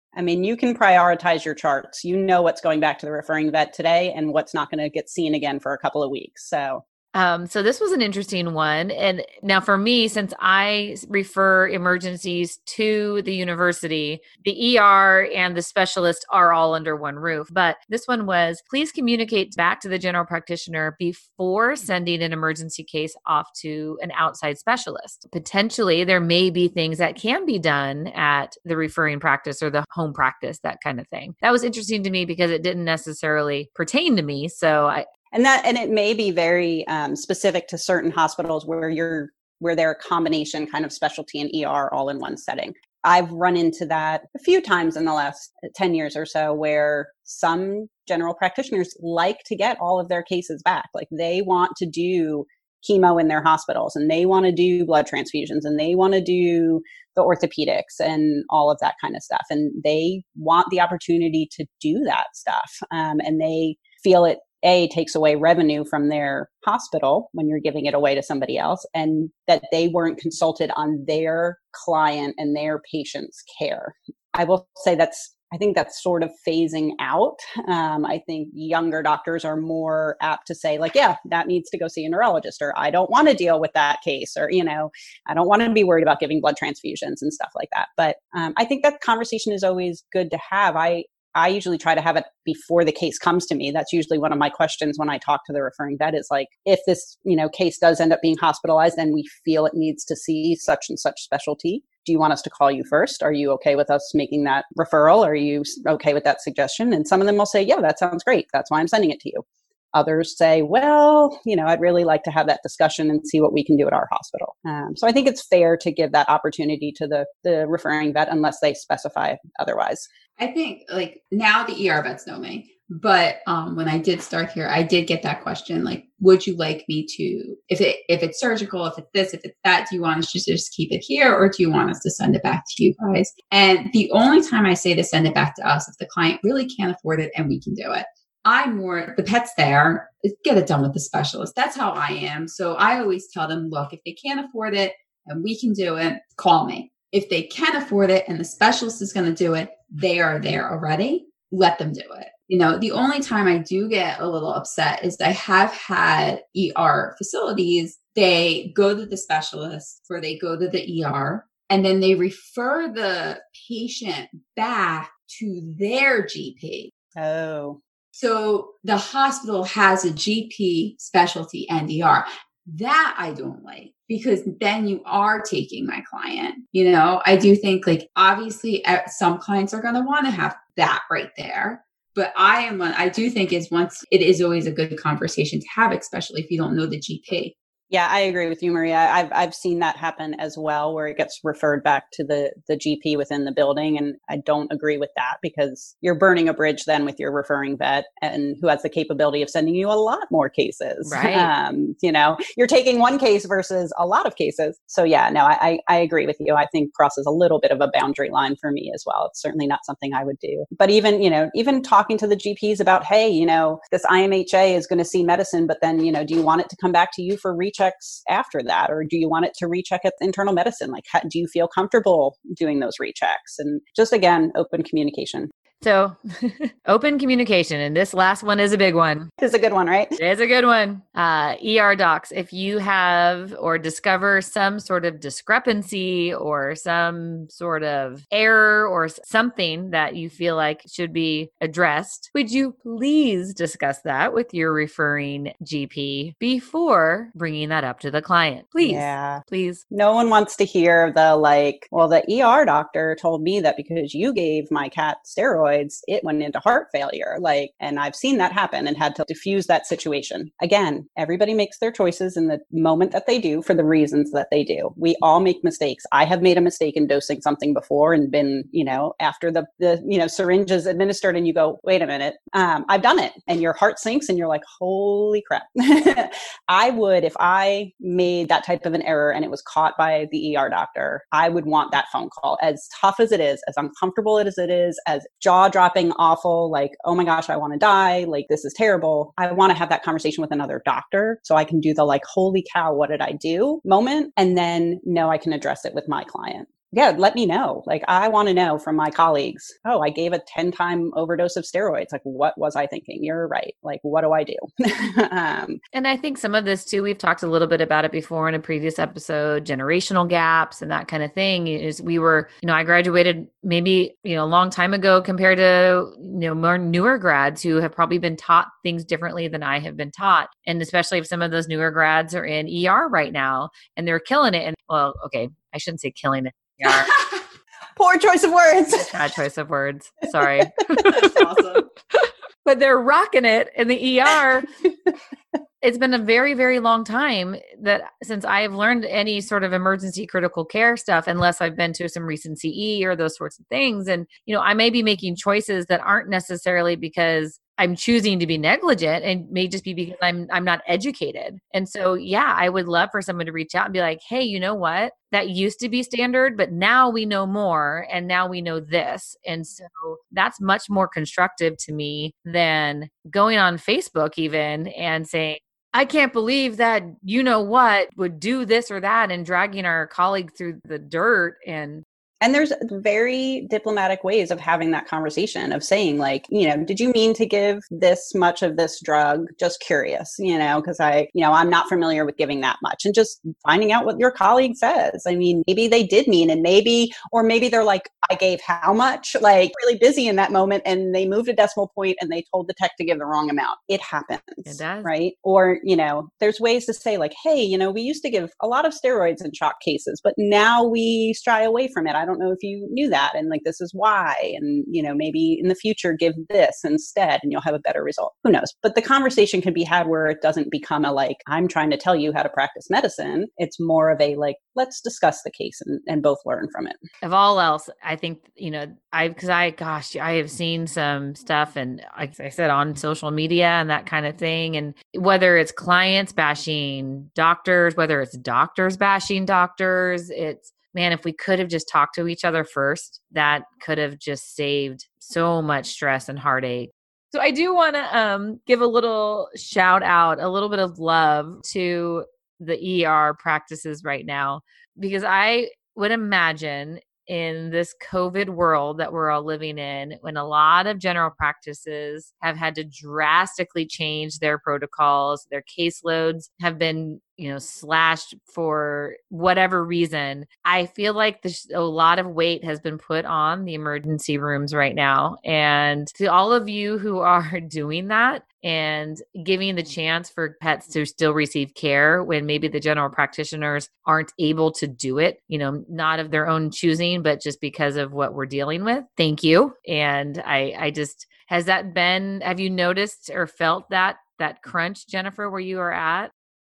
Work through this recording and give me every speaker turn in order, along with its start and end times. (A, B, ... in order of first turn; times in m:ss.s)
0:00.1-0:06.8 A
0:07.1-0:35.1 B
0:35.3-2:00.1 A
2:00.4-2:46.9 C
2:47.2-2:47.8 A
2:48.1-3:07.5 C
3:07.9-3:45.5 A
3:21.0-3:21.5 B
3:45.8-3:49.3 B
3:49.4-3:50.2 A
3:50.2-4:09.8 B
4:08.8-5:05.8 A
5:05.9-5:27.1 B
5:28.0-5:29.2 A
5:28.9-5:31.4 B
5:30.4-5:31.1 A
5:31.0-5:31.9 C
5:32.1-5:34.7 B
5:35.8-6:12.0 B
6:12.4-6:57.0 A
6:34.6-6:35.1 B
6:57.2-8:06.3 B